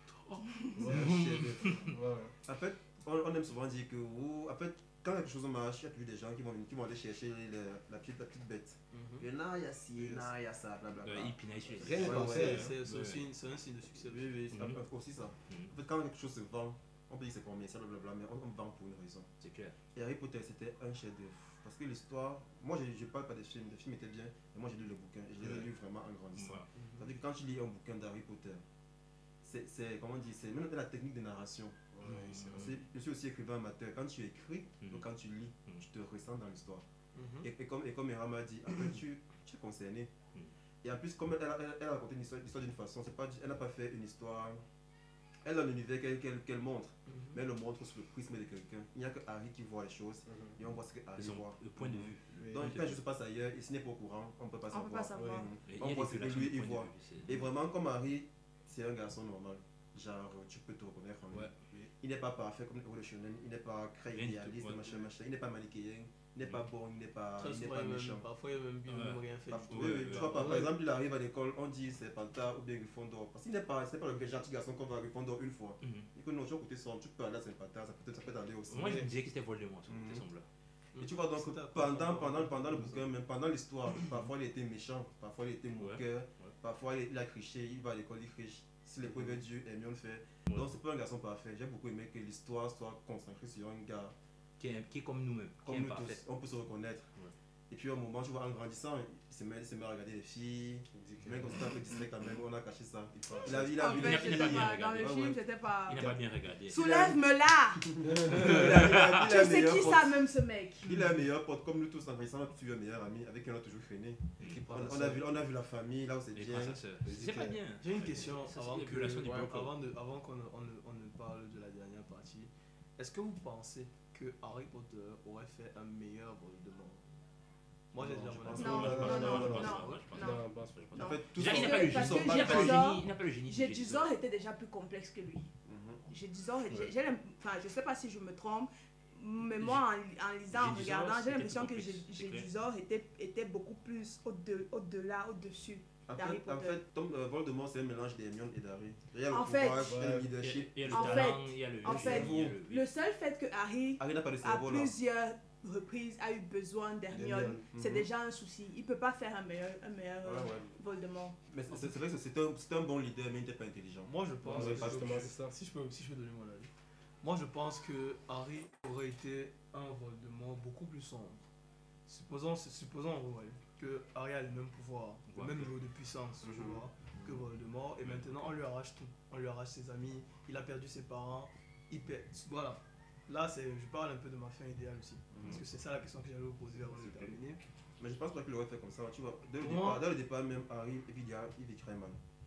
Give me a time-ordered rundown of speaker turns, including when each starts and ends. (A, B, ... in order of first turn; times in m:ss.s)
0:00.3-0:01.9 A
0:00.8-0:02.4 B
0:00.8-0:01.8 C
0:02.4-0:12.7 C
0:08.9-0:09.3 D
0:10.0-0:10.3 D
0:11.0-0:13.2 A
0:11.8-0:12.7 B
0:12.1-0:14.3 D
0:14.0-0:19.3 C
0:14.5-0:14.8 A
0:19.4-0:19.8 A
0:19.9-0:28.6 C
0:25.4-0:25.7 A
0:26.4-0:26.7 A
0:26.8-0:27.0 D
0:29.4-0:36.8 C
0:31.9-0:32.7 B
0:32.0-0:32.8 A
0:34.8-0:35.1 A
0:37.2-0:37.5 D
0:37.4-0:40.1 C
0:40.8-0:44.6 C
0:45.4-1:08.2 C
0:47.1-0:47.4 D
0:50.3-0:50.6 B
0:51.2-0:53.0 A
0:52.4-0:52.7 B
0:54.7-0:55.5 E
0:55.2-0:55.5 B
0:55.7-0:57.5 A
1:04.2-1:05.0 A
1:07.4-1:10.4 D
1:08.9-1:10.6 A
1:09.5-1:19.1 C
1:10.2-1:10.7 B
1:15.8-1:16.1 A
1:18.7-1:20.5 A
1:18.8-1:19.1 B
1:19.9-1:20.2 C
1:21.0-1:23.0 D
1:21.0-1:34.2 C
1:25.8-1:26.5 A
1:34.6-1:36.2 A
1:35.6-1:37.1 C
1:37.7-1:45.4 C
1:40.9-1:41.6 B
1:43.2-1:43.7 B
1:43.4-1:46.1 E
1:43.8-1:45.2 A
1:45.9-1:46.8 A
1:45.9-1:46.2 B
1:46.7-1:47.9 E
1:46.7-1:47.2 C
1:47.8-1:50.2 C
1:48.0-1:48.6 B
1:48.4-1:49.0 A
1:48.6-1:50.9 E
1:50.8-1:56.8 C
1:54.5-1:55.2 B
1:56.3-1:59.7 A
1:57.0-1:57.6 B
1:57.8-2:07.0 D
2:07.9-2:09.2 D
2:08.0-2:09.8 C
2:08.5-2:11.1 B
2:08.6-2:15.5 E
2:08.6-2:14.1 A
2:11.0-2:12.8 C
2:15.7-2:16.0 C
2:16.1-2:26.8 E
2:20.5-2:22.5 A
2:26.1-2:32.5 C
2:29.3-2:30.0 E
2:29.8-2:30.3 B
2:30.4-2:32.8 A
2:30.9-2:41.4 E
2:34.0-2:34.9 C
2:37.1-2:37.7 B
2:37.8-2:38.1 C
2:40.2-2:40.7 C
2:41.5-2:45.3 C
2:44.0-2:46.7 D
2:44.4-2:45.5 B
2:47.2-2:51.4 D
2:52.1-3:07.6 D
2:55.3-2:55.7 A
2:56.6-2:57.4 C
2:58.0-2:58.3 A
3:05.3-3:05.6 C
3:08.0-3:12.2 C
3:09.6-3:10.0 D